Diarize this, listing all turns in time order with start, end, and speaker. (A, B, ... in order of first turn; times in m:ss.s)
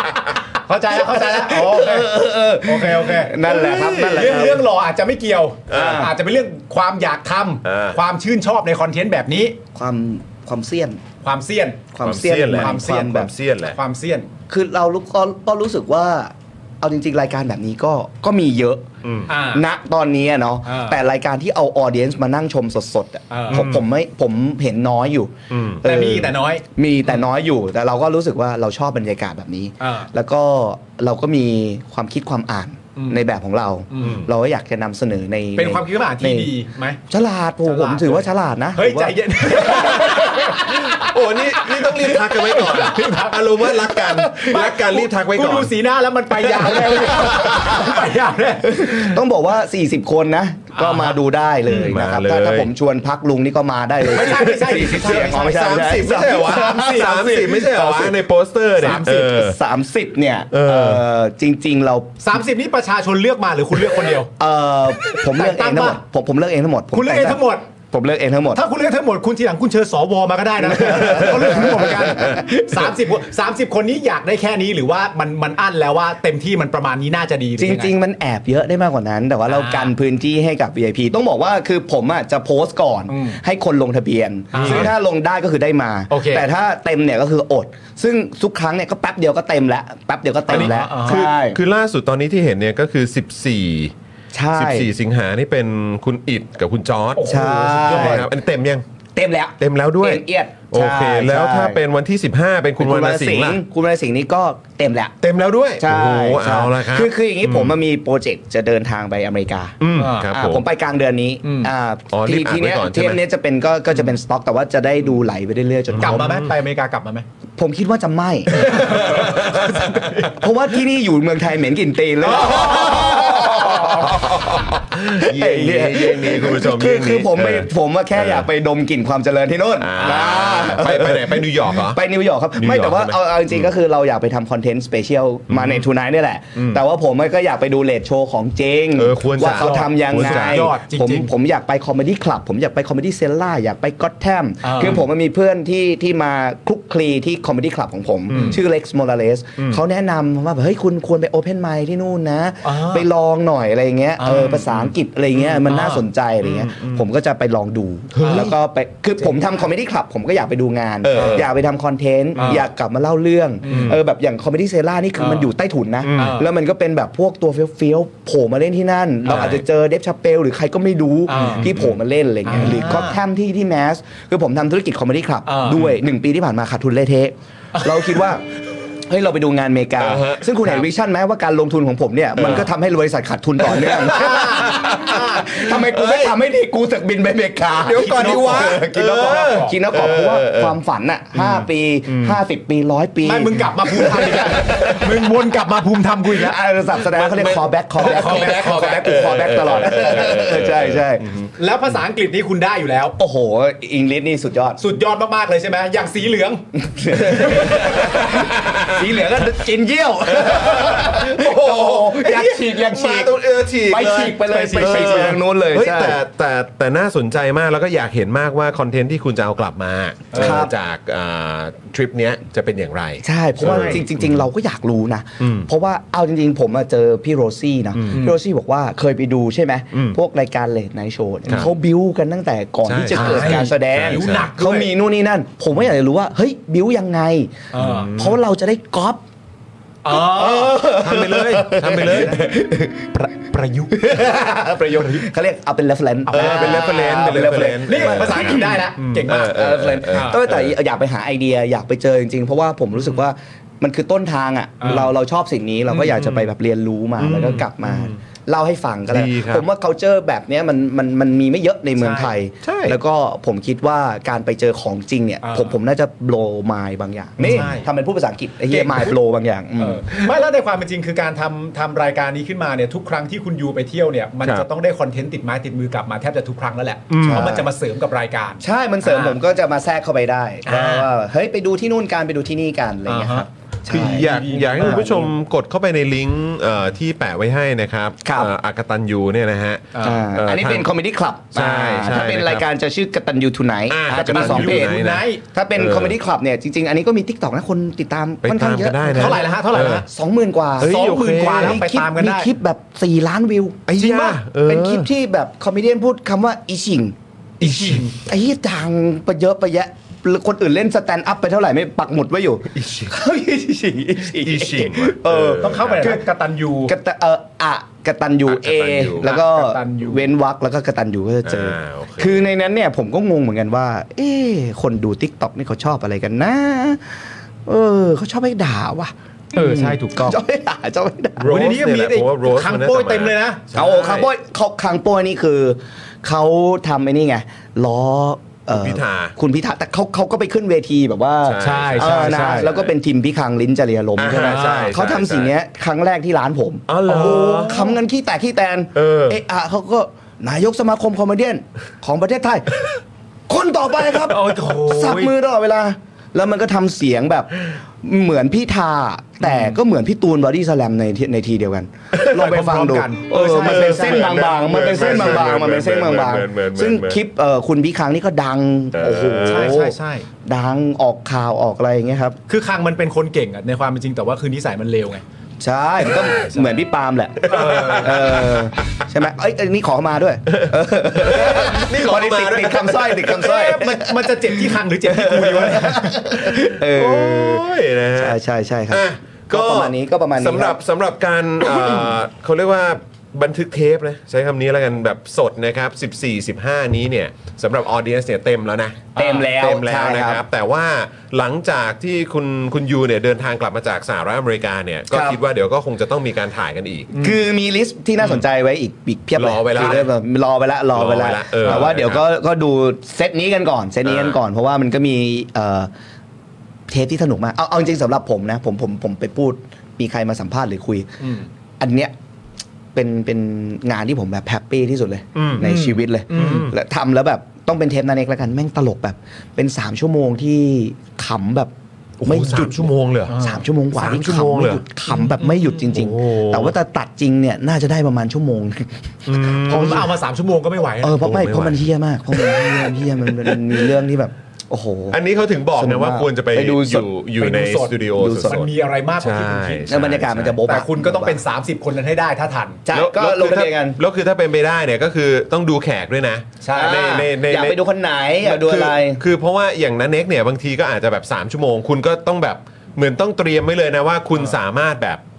0:00.6-0:03.4 A
0:01.0-0:04.7 B
0:03.4-0:04.6 C
0:04.1-0:09.6 A
0:05.7-0:06.1 C
0:05.7-0:06.1 B
0:07.6-0:08.0 C
0:09.8-0:11.0 B
0:11.2-0:11.8 A
0:11.9-0:13.3 B
0:12.0-0:13.8 C
0:12.6-0:14.3 A
0:14.5-0:18.9 B
0:19.0-0:19.3 C
0:19.3-0:19.6 A
0:19.5-0:36.5 B
0:20.6-0:21.0 A
0:23.3-0:23.7 A
0:23.5-0:23.8 C
0:25.5-0:25.8 C
0:25.8-0:27.2 A
0:29.8-0:30.1 A
0:33.9-0:34.2 A
0:34.0-0:34.3 C
0:35.6-0:37.0 A
0:37.1-0:40.4 B
0:37.6-0:49.2 A
0:39.8-0:45.8 C
0:46.4-0:48.0 C
0:46.8-0:48.0 B
0:48.6-0:58.1 B
0:50.8-0:51.2 A
0:51.7-0:52.7 C
0:54.0-0:58.0 A
0:54.7-0:59.6 C
0:58.8-0:59.4 A
0:58.8-1:02.2 B
1:00.5-1:01.0 C
1:02.2-1:04.3 A
1:04.4-1:08.6 B
1:05.0-1:06.0 A
1:06.9-1:07.7 A
1:08.5-1:18.0 A
1:10.7-1:12.4 B
1:10.9-1:12.5 C
1:17.6-1:31.6 B
1:19.5-1:19.9 A
1:23.1-1:23.4 A
1:24.5-1:24.9 A
1:24.6-1:24.9 C
1:26.1-1:26.4 A
1:30.5-1:31.3 A
1:30.5-1:33.9 C
1:34.3-1:34.9 B
1:34.5-1:38.8 C
1:37.2-1:38.2 A
1:37.3-1:38.3 B
1:39.2-1:41.8 B
1:39.6-1:43.6 C
1:42.8-1:45.2 B
1:45.2-1:47.8 C
1:45.8-1:56.3 B
1:49.8-1:50.6 C
1:50.0-1:50.3 A
1:51.4-1:51.7 A
1:52.1-1:53.2 C
1:55.9-1:56.5 C
1:56.0-1:57.3 A
1:57.6-2:58.5 B
1:58.5-2:00.5 C
1:58.6-2:00.1 A
2:02.2-2:04.2 A
2:02.4-2:08.5 C
2:09.8-2:12.0 C
2:12.6-2:13.7 C
2:15.5-2:15.9 C
2:19.0-2:20.8 C
2:19.5-2:21.3 A
2:24.6-2:25.0 A
2:28.3-2:28.6 A
2:32.6-2:33.1 A
2:34.2-2:36.0 A
2:36.4-2:37.0 C
2:38.1-2:38.5 C
2:38.2-2:38.5 A
2:41.0-2:41.5 C
2:41.2-2:41.4 A
2:42.4-2:42.7 A
2:43.6-2:44.0 A
2:43.7-2:44.0 C
2:45.2-2:45.5 A
2:46.0-2:46.4 C
2:46.2-2:46.5 A
2:49.3-2:49.6 A
2:49.3-2:49.6 C
2:51.3-2:51.8 A
2:51.4-2:52.0 C
2:52.4-2:53.2 A
2:55.5-2:56.0 A
2:57.8-2:58.2 A
2:59.1-3:15.2 B
3:00.0-3:00.5 C
3:02.4-3:02.7 C
3:03.6-3:06.4 C
3:04.0-3:05.7 A
3:07.8-3:10.8 C
3:07.9-3:09.8 A
3:11.3-3:12.4 C
3:13.2-3:16.6 A
3:16.3-3:21.2 B
3:17.0-3:21.5 C
3:18.0-3:19.1 A
3:21.6-3:23.2 A
3:23.2-3:24.8 B
3:24.8-3:28.2 A
3:26.8-3:36.2 B
3:27.3-3:29.1 C
3:30.3-3:44.4 C
3:34.4-3:35.1 A
3:40.3-3:40.7 A
3:40.4-3:40.7 B
3:43.2-3:59.2 B
3:43.6-3:44.0 A
3:45.4-3:45.7 C
3:48.0-3:48.2 C
3:49.9-3:50.2 C
3:51.4-3:51.7 C
3:51.5-3:51.7 A
3:52.8-3:54.5 C
3:53.1-3:54.9 A
3:57.7-3:58.2 A
3:57.8-3:58.4 C
4:00.0-4:01.1 A
4:00.1-4:03.3 B
4:01.0-4:02.6 C
4:01.7-4:02.5 A
4:03.1-4:05.3 A
4:03.9-4:30.0 B
4:06.3-4:10.4 A
4:06.3-4:10.8 C
4:14.8-4:15.1 A
4:16.0-4:16.4 C
4:17.2-4:18.2 C
4:19.1-4:19.6 C
4:22.0-4:22.3 A
4:22.6-4:23.0 C
4:25.4-4:25.8 A
4:27.4-4:27.9 A
4:27.4-4:27.7 C
4:28.7-4:29.1 A
4:29.8-4:39.4 A
4:34.4-4:34.7 C
4:37.1-4:37.6 C
4:37.2-4:37.7 B
4:38.6-4:45.1 B
4:40.6-4:41.1 A
4:43.1-4:45.3 A
4:43.9-4:50.9 C
4:48.2-4:48.5 B
4:49.9-4:50.2 A
4:50.0-4:59.5 B
4:51.5-4:52.7 C
4:53.9-4:55.2 C
4:54.1-4:55.4 A
4:55.8-4:56.2 C
4:58.4-5:00.0 C
4:59.0-5:00.0 A
5:00.0-5:07.2 B
5:00.8-5:01.8 C
5:00.8-5:02.5 A
5:03.9-5:05.1 C
5:07.6-5:08.2 A
5:07.6-5:08.0 C
5:07.9-5:16.2 B
5:12.8-5:13.2 C
5:14.3-5:16.2 C
5:15.6-5:16.9 A
5:16.9-5:27.0 B
5:18.5-5:19.3 C
5:19.2-5:20.2 A
5:21.4-5:22.5 C
5:27.7-5:31.5 B
5:29.5-5:30.4 A
5:31.4-5:34.3 C
5:31.4-5:33.6 A
5:33.7-5:52.8 B
5:38.7-5:39.4 C
5:41.4-5:42.9 C
5:41.6-5:42.7 A
5:44.2-5:45.5 C
5:44.4-5:44.9 A
5:46.9-5:47.9 C
5:47.1-5:47.9 A
5:48.9-5:49.4 C
5:53.5-6:12.4 B
5:54.2-5:55.3 A
6:02.3-6:04.3 A
6:03.4-6:07.2 C
6:08.9-6:09.8 C
6:09.4-6:10.3 A
6:12.5-6:15.2 A
6:15.6-6:27.6 B
6:16.0-6:16.6 C
6:17.4-6:18.7 C
6:20.5-6:23.6 C
6:23.4-6:26.2 A
6:26.4-6:28.4 C
6:28.2-6:30.8 B
6:28.9-6:47.2 C
6:39.2-6:39.5 A
6:39.2-6:40.4 B
6:45.1-6:45.4 B
6:47.2-6:55.9 B
6:49.4-6:50.1 C
6:50.9-6:52.3 C
6:51.6-6:51.9 A
6:54.0-6:54.4 C
6:56.9-7:01.2 B
7:01.2-7:01.5 A
7:01.8-7:02.1 B
7:03.0-7:20.0 B
7:05.4-7:05.7 C
7:05.6-7:06.7 A
7:06.3-7:06.8 C
7:12.2-7:14.8 C
7:13.3-7:13.6 A
7:15.4-7:16.8 C
7:19.3-7:20.1 C
7:19.6-7:21.2 A
7:21.0-7:25.2 B
7:21.2-7:23.9 C
7:25.1-7:30.6 C
7:25.8-7:27.1 B
7:27.4-7:29.9 A
7:28.2-7:28.6 B
7:29.9-7:31.4 B
7:30.6-7:32.8 A
7:32.9-7:34.0 B
7:32.9-7:37.8 C
7:36.6-7:37.0 A
7:36.7-7:39.2 B
7:38.4-7:45.2 C